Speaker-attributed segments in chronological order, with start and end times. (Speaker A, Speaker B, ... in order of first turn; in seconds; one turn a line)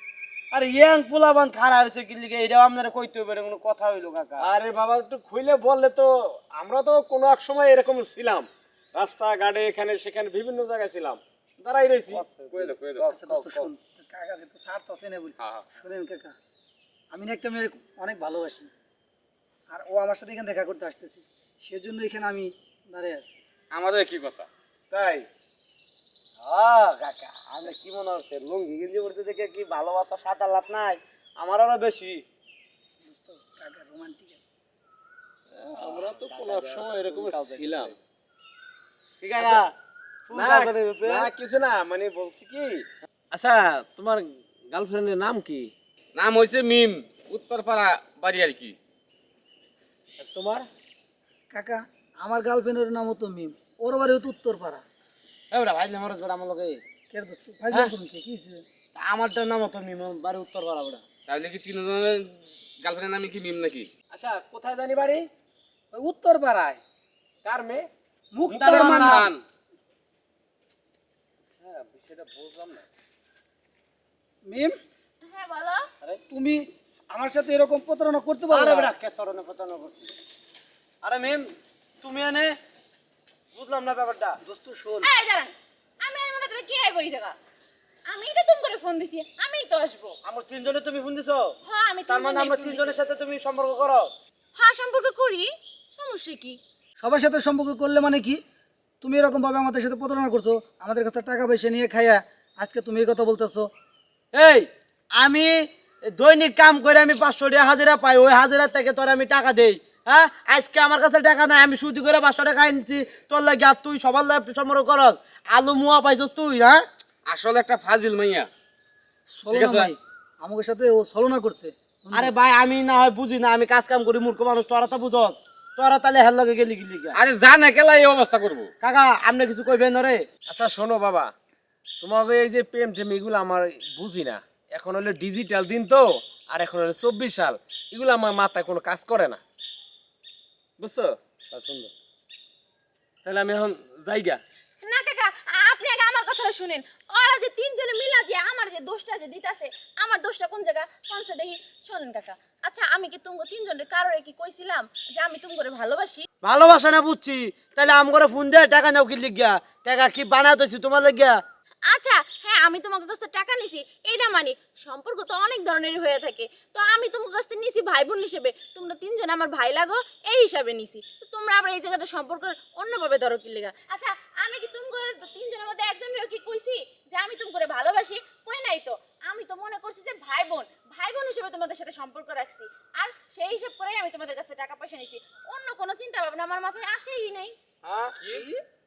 Speaker A: 0.5-4.5
Speaker B: 4.4-12.3
Speaker A: 12.1-12.8
Speaker C: 12.5-13.1
Speaker B: 13.0-13.7
Speaker D: 13.1-16.3
Speaker C: 15.4-15.7
Speaker D: 17.1-18.7
Speaker D: 19.7-23.4
Speaker C: 23.7-24.5
Speaker A: 24.9-25.2
Speaker A: 26.4-32.2
Speaker D: 33.0-34.5
Speaker B: 35.6-38.0
Speaker A: 35.8-37.9
Speaker A: 39.2-39.7
Speaker B: 39.4-39.6
Speaker A: 40.3-41.3
Speaker B: 40.3-45.7
Speaker C: 46.1-48.8
Speaker B: 50.2-50.7
Speaker D: 51.5-54.8
Speaker A: 55.5-56.8
Speaker D: 57.1-58.6
Speaker A: 59.0-61.0
Speaker C: 61.3-63.9
Speaker B: 64.1-65.3
Speaker D: 65.9-66.8
Speaker B: 67.5-67.9
Speaker D: 68.3-69.3
Speaker B: 68.5-69.2
Speaker C: 68.5-69.4
Speaker B: 71.5-72.8
Speaker D: 74.5-74.8
Speaker E: 75.2-75.9
Speaker D: 76.3-78.9
Speaker A: 78.5-80.1
Speaker A: 81.0-82.5
Speaker A: 83.5-84.4
Speaker D: 84.4-85.1
Speaker E: 85.0-87.4
Speaker E: 88.1-90.2
Speaker A: 90.2-91.5
Speaker E: 91.7-92.9
Speaker A: 92.1-94.1
Speaker E: 94.6-96.6
Speaker D: 97.0-98.4
Speaker D: 99.0-103.7
Speaker A: 104.3-116.8
Speaker C: 117.3-118.5
Speaker D: 119.3-122.3
Speaker C: 119.5-119.9
Speaker A: 122.1-127.2
Speaker C: 127.1-128.7
Speaker A: 128.8-130.3
Speaker B: 130.5-131.3
Speaker B: 132.0-139.4
Speaker B: 140.8-141.9
Speaker A: 141.5-141.9
Speaker B: 143.2-144.4
Speaker E: 144.8-156.3
Speaker A: 156.4-161.4
Speaker E: 161.9-187.6
Speaker A: 187.8-188.5
Speaker D: 188.3-188.6